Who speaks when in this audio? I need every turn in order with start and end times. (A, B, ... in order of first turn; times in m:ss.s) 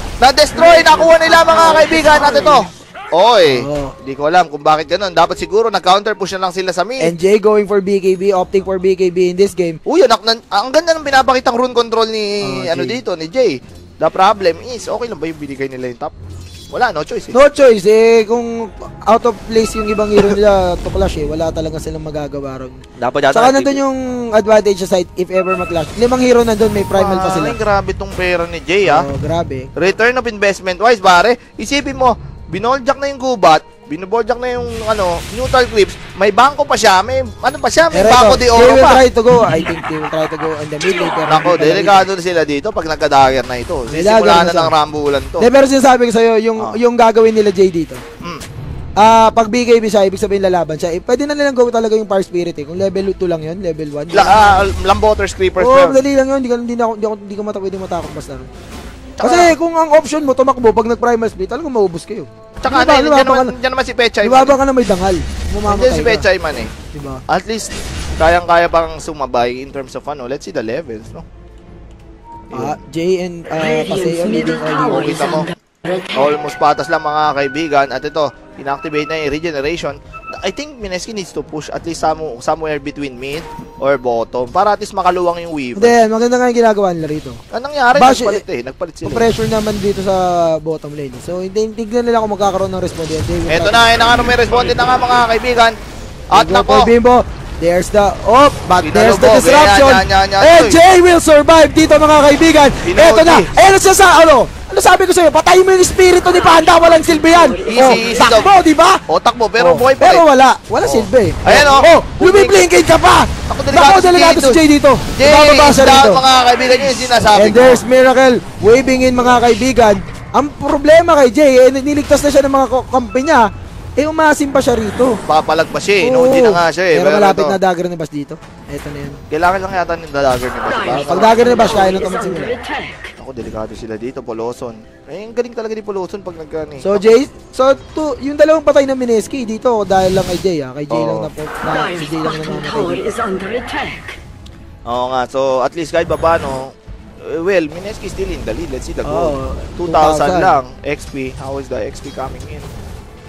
0:00.2-0:07.1 A
0:00.6-0:02.7 B
0:03.4-0:03.9 C
0:07.0-0:09.8 C
0:09.8-0:16.1 A
0:12.4-0:13.0 C
0:16.7-0:17.4 A
0:17.3-0:22.8 C
0:23.0-0:23.8 A
0:23.3-0:27.6 C
0:26.9-0:29.1 A
0:28.8-0:29.7 C
0:29.7-0:39.0 A
0:37.9-0:42.0 C
0:41.2-0:45.5 A
0:43.9-0:44.7 C
0:45.4-0:48.0 C
0:49.0-0:54.6 C
0:54.1-0:56.0 A
0:55.6-0:58.5 C
0:59.2-0:59.6 A
0:59.2-1:03.5 C
1:02.6-1:04.6 A
1:04.2-1:06.3 C
1:05.6-1:06.7 A
1:06.9-1:07.2 C
1:07.3-1:11.2 A
1:12.5-1:12.8 A
1:12.5-1:15.4 C
1:13.6-1:16.4 B
1:14.9-1:15.4 A
1:16.1-1:26.0 A
1:25.8-1:27.4 C
1:27.5-1:29.3 A
1:27.9-1:28.4 C
1:29.0-1:33.8 C
1:33.5-1:35.8 A
1:36.3-1:36.9 A
1:36.3-1:49.0 C
1:38.8-1:40.8 A
1:42.8-1:43.5 A
1:46.3-1:48.4 B
1:47.7-1:48.5 A
1:49.1-1:50.2 A
1:49.6-1:56.2 C
1:50.8-1:52.6 A
1:53.5-1:54.6 A
1:55.1-1:57.8 A
1:57.3-2:05.2 C
2:05.3-2:07.6 A
2:06.0-2:09.2 C
2:09.3-2:11.9 A
2:10.7-2:13.1 B
2:10.9-2:12.5 C
2:13.2-2:17.0 A
2:16.8-2:23.1 C
2:20.9-2:21.3 A
2:21.6-2:24.2 B
2:24.8-2:32.7 A
2:29.0-2:30.5 C